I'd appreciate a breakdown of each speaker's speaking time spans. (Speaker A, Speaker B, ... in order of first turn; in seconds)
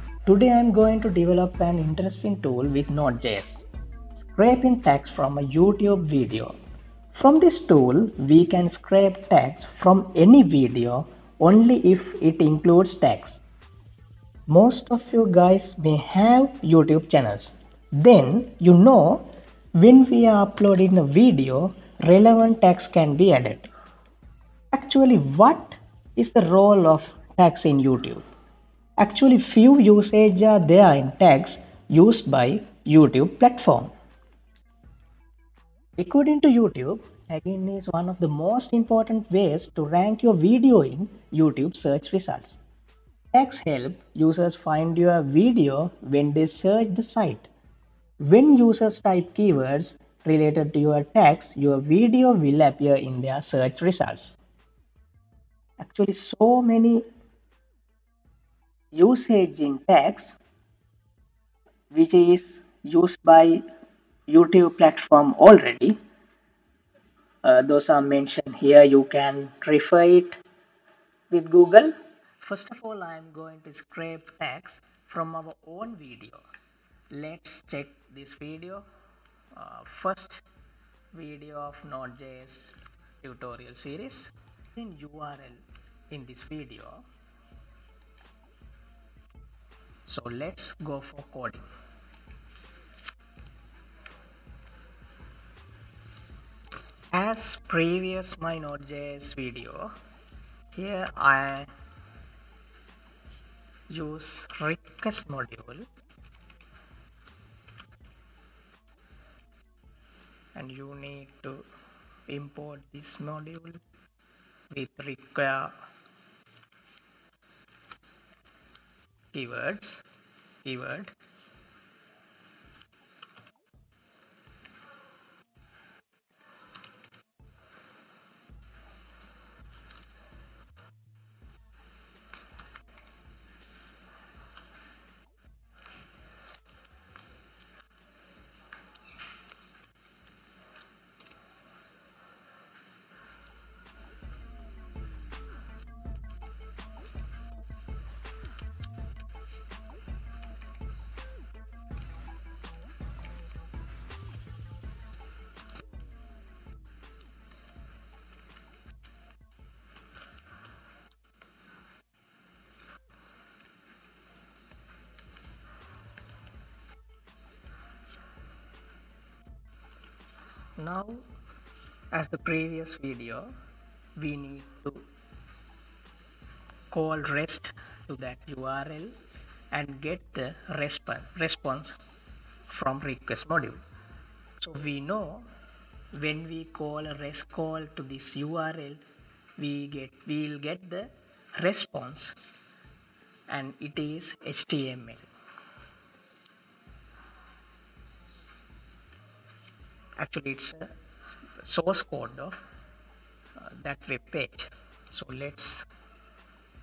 Speaker A: 0.2-3.6, 4.2-6.5, 7.1-13.4, 14.5-23.7, 24.7-28.2, 29.0-33.9, 36.0-42.6, 43.3-47.5, 48.2-54.4, 55.8-57.0, 58.9-60.4, 61.9-63.6, 64.3-66.0, 67.4-70.4, 71.3-76.5, 77.1-78.8, 79.5-80.4, 81.1-87.0, 90.1-91.7, 97.1-99.9, 100.7-101.7, 103.9-105.9, 110.5-111.6, 112.3-113.8, 114.7-115.7, 119.3-120.0, 120.6-121.1, 170.8-171.2, 172.1-173.5, 174.2-175.0, 176.9-179.1, 179.7-182.0, 182.7-183.8, 184.6-185.5, 186.1-189.0, 189.6-192.3, 193.5-195.3, 200.2-200.9, 201.6-202.6, 203.6-205.9